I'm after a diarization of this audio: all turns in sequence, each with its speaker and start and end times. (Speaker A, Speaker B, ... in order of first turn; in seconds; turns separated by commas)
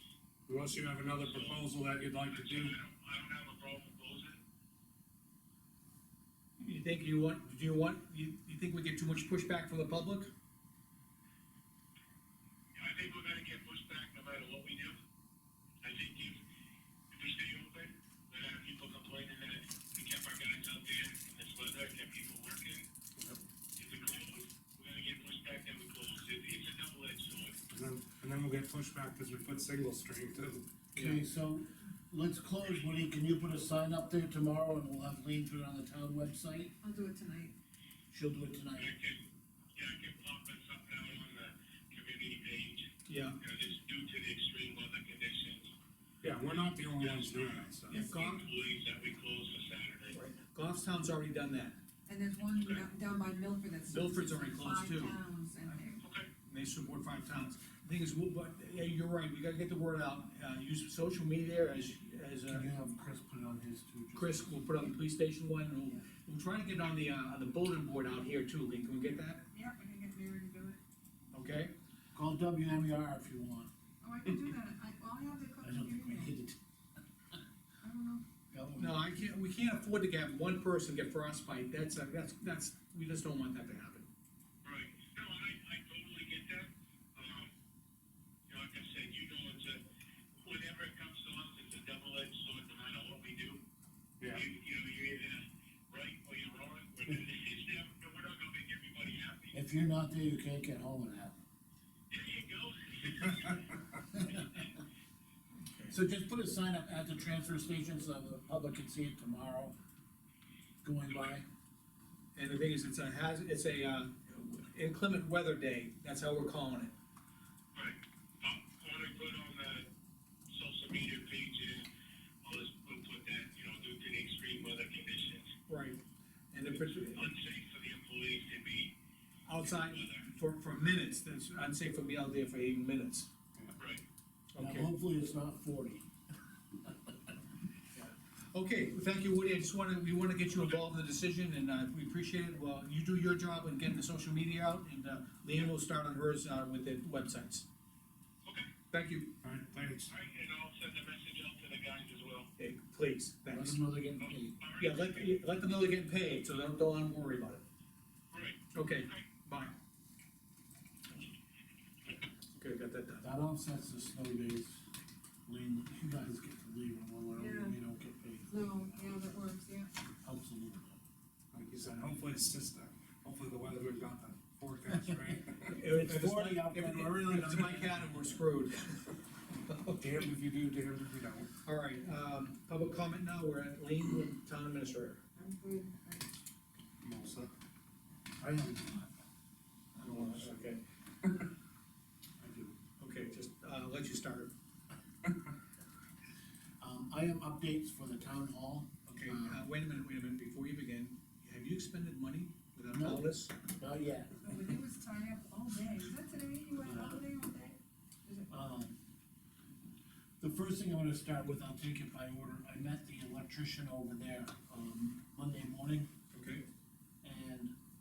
Speaker A: 0.5-2.8, Speaker B: 1.2-1.6, Speaker B: 2.3-4.4, Speaker C: 6.6-10.3, Speaker B: 12.8-15.0, Speaker B: 15.8-16.4, Speaker B: 17.1-22.9, Speaker B: 23.8-27.6, Speaker A: 27.7-30.7, Speaker D: 30.9-36.7, Speaker E: 36.8-37.5, Speaker D: 38.1-38.9, Speaker B: 38.8-42.9, Speaker C: 43.1-43.4, Speaker B: 43.4-45.7, Speaker A: 46.2-48.0, Speaker B: 47.0-50.2, Speaker C: 47.9-48.5, Speaker C: 50.1-51.8, Speaker E: 52.1-56.0, Speaker B: 52.6-52.8, Speaker C: 53.9-55.2, Speaker B: 56.0-56.3, Speaker C: 56.4-62.7, Speaker D: 62.5-64.6, Speaker C: 64.2-69.5, Speaker E: 69.5-70.8, Speaker C: 71.3-71.7, Speaker D: 72.1-73.7, Speaker E: 74.0-76.3, Speaker D: 75.6-76.6, Speaker E: 77.8-78.2, Speaker D: 78.5-79.1, Speaker C: 78.8-84.1, Speaker B: 84.6-87.5, Speaker B: 88.5-89.8, Speaker B: 90.4-93.6, Speaker B: 94.3-99.6, Speaker D: 99.5-101.3, Speaker B: 102.1-103.7, Speaker D: 104.2-104.5, Speaker B: 104.3-104.7, Speaker C: 105.7-106.0, Speaker D: 105.9-109.7, Speaker D: 110.8-111.5, Speaker B: 111.1-111.4, Speaker C: 112.3-116.9, Speaker B: 117.7-119.9, Speaker B: 120.5-121.9, Speaker B: 122.4-125.5, Speaker C: 125.7-126.0, Speaker C: 126.5-127.3, Speaker B: 126.7-128.9, Speaker C: 129.5-133.3, Speaker B: 129.5-130.3, Speaker B: 133.8-134.0, Speaker C: 134.5-134.9, Speaker D: 134.6-136.1, Speaker C: 137.9-147.7, Speaker B: 140.6-140.8, Speaker B: 148.4-148.7, Speaker C: 148.9-149.3, Speaker A: 149.4-150.1, Speaker B: 150.1-152.5, Speaker C: 152.6-153.8, Speaker D: 153.5-154.6, Speaker B: 154.2-155.4, Speaker C: 154.8-157.6, Speaker B: 158.3-159.2, Speaker C: 158.7-159.8, Speaker C: 162.5-163.2, Speaker D: 163.2-164.8, Speaker D: 165.5-169.2, Speaker E: 167.4-167.8, Speaker E: 168.5-169.9, Speaker D: 170.2-171.0, Speaker A: 171.5-175.8, Speaker D: 174.9-175.4, Speaker C: 175.7-179.1, Speaker D: 175.9-178.1, Speaker C: 179.7-180.3, Speaker A: 180.0-181.5, Speaker C: 181.7-185.2, Speaker E: 185.4-186.3, Speaker A: 187.0-187.5, Speaker D: 188.4-189.1, Speaker C: 190.0-190.8, Speaker A: 190.0-190.5, Speaker D: 192.4-192.7, Speaker C: 193.0-194.5, Speaker D: 196.8-199.7, Speaker C: 199.1-203.6, Speaker D: 202.9-204.5, Speaker E: 204.4-208.5, Speaker D: 206.8-207.3, Speaker D: 208.5-209.0, Speaker D: 210.4-216.1, Speaker C: 216.3-216.7, Speaker D: 217.2-217.7